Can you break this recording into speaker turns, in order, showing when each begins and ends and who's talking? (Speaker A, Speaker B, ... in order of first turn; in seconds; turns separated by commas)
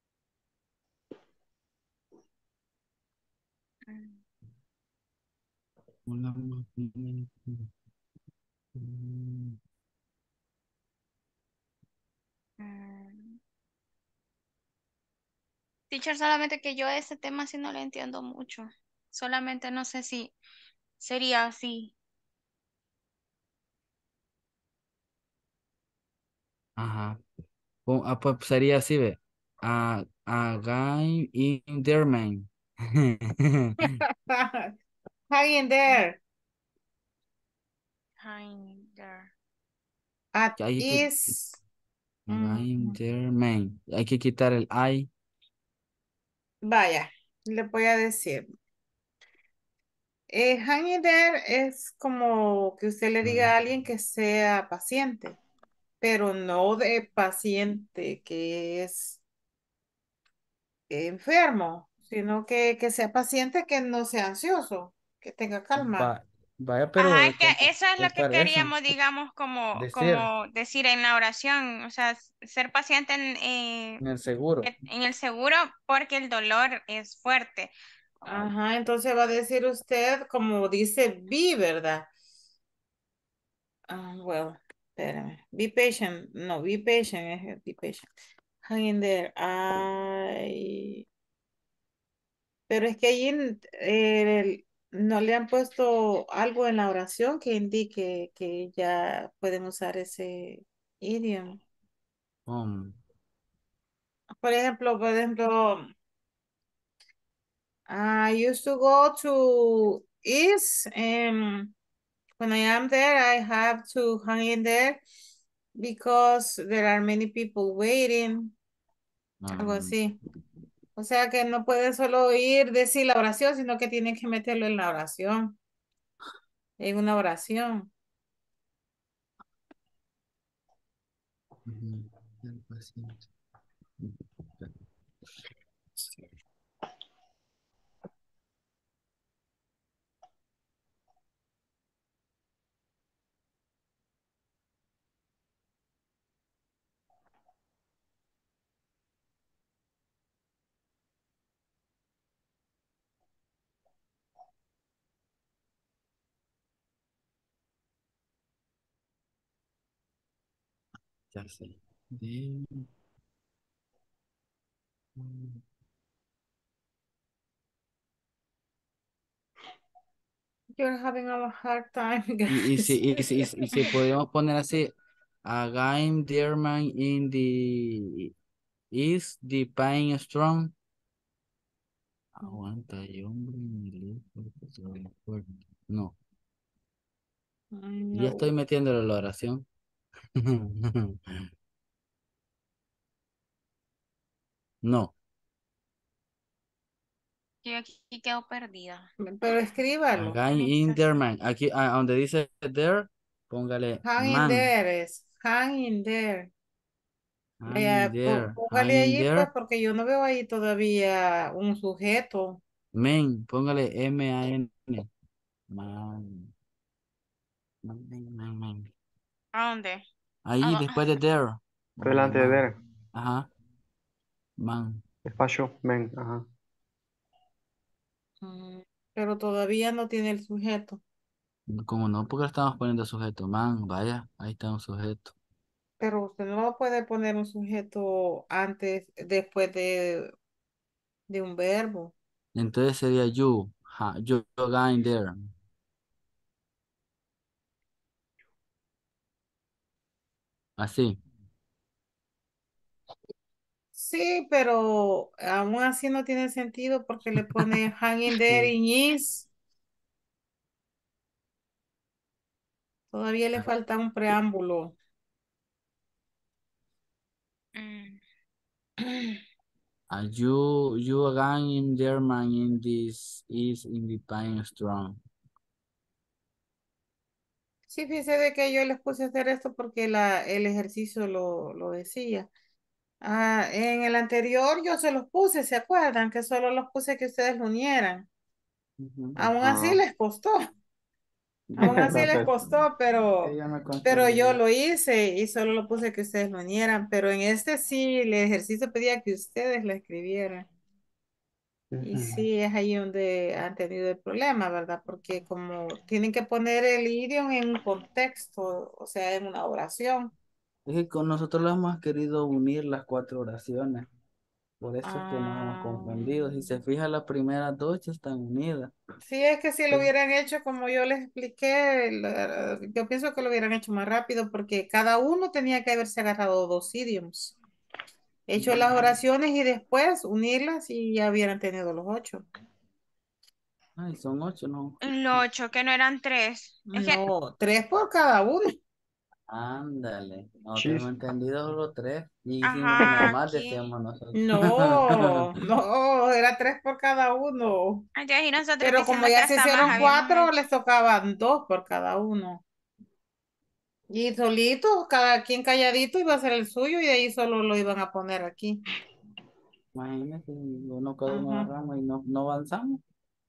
Speaker A: 3.9-4.2, Speaker B: 6.0-7.7, Speaker B: 8.7-9.6, Speaker A: 12.6-13.4, Speaker A: 15.9-20.4, Speaker A: 21.0-21.9, Speaker B: 26.8-27.2, Speaker B: 27.9-34.0, Speaker C: 34.3-34.7, Speaker C: 35.3-36.2, Speaker A: 38.2-39.3, Speaker C: 40.3-41.6, Speaker B: 40.6-41.3, Speaker B: 42.3-45.1, Speaker C: 42.3-42.9, Speaker C: 46.6-48.5, Speaker C: 50.3-55.4, Speaker C: 56.0-59.2, Speaker C: 60.9-66.1, Speaker B: 65.8-68.9, Speaker A: 67.0-74.0, Speaker B: 69.7-70.3, Speaker B: 74.0-74.7, Speaker A: 74.6-77.7, Speaker C: 78.2-82.1, Speaker C: 83.9-88.1, Speaker C: 88.6-91.0, Speaker C: 92.7-101.6, Speaker B: 102.5-103.0, Speaker C: 104.4-105.9, Speaker C: 107.9-111.7, Speaker C: 112.4-115.0, Speaker C: 115.8-118.5, Speaker B: 119.4-120.0, Speaker C: 119.6-120.2, Speaker C: 121.0-125.5, Speaker C: 126.8-127.9, Speaker B: 131.7-133.2, Speaker B: 134.0-134.8, Speaker B: 136.0-136.3, Speaker B: 161.3-162.9, Speaker B: 165.2-165.6, Speaker C: 170.8-173.9, Speaker B: 172.5-174.9, Speaker B: 175.4-178.3, Speaker B: 178.9-180.7, Speaker B: 182.3-186.2, Speaker C: 187.7-188.5, Speaker B: 188.1-189.7, Speaker B: 190.3-191.5, Speaker B: 194.8-195.1, Speaker A: 197.6-199.1, Speaker C: 199.2-200.4, Speaker B: 200.2-204.7, Speaker A: 200.5-200.9, Speaker C: 204.0-206.5, Speaker B: 207.6-209.5, Speaker C: 207.7-212.6, Speaker B: 212.9-215.1, Speaker B: 215.7-216.5, Speaker B: 217.8-218.9, Speaker A: 219.5-220.0, Speaker B: 220.4-223.5, Speaker A: 220.6-221.1, Speaker D: 222.0-222.8, Speaker B: 224.6-225.0, Speaker D: 225.3-226.4, Speaker C: 228.4-231.0, Speaker B: 231.8-235.3, Speaker C: 236.0-240.3, Speaker C: 241.3-242.1, Speaker B: 242.5-245.5, Speaker B: 250.8-251.2, Speaker C: 253.9-259.5, Speaker C: 263.1-264.9, Speaker A: 267.7-268.2, Speaker B: 270.1-275.2, Speaker C: 277.9-282.5, Speaker C: 283.2-288.2, Speaker B: 289.0-289.4, Speaker C: 289.4-290.6, Speaker D: 289.6-290.0, Speaker B: 291.7-292.7, Speaker C: 291.8-300.7, Speaker D: 291.8-292.5, Speaker B: 293.4-294.6, Speaker D: 301.9-302.4, Speaker C: 302.0-310.3, Speaker B: 310.9-314.1, Speaker B: 314.8-318.9, Speaker C: 315.0-316.7, Speaker C: 319.2-327.5, Speaker C: 328.5-332.4, Speaker B: 328.6-329.0, Speaker B: 334.0-335.0, Speaker A: 335.0-337.2, Speaker C: 336.9-338.8, Speaker B: 339.5-345.5, Speaker D: 340.7-341.1, Speaker A: 342.6-343.8, Speaker C: 344.3-348.0, Speaker A: 348.1-350.5, Speaker C: 348.8-352.6, Speaker C: 354.1-358.8, Speaker B: 359.9-363.0, Speaker C: 361.3-361.7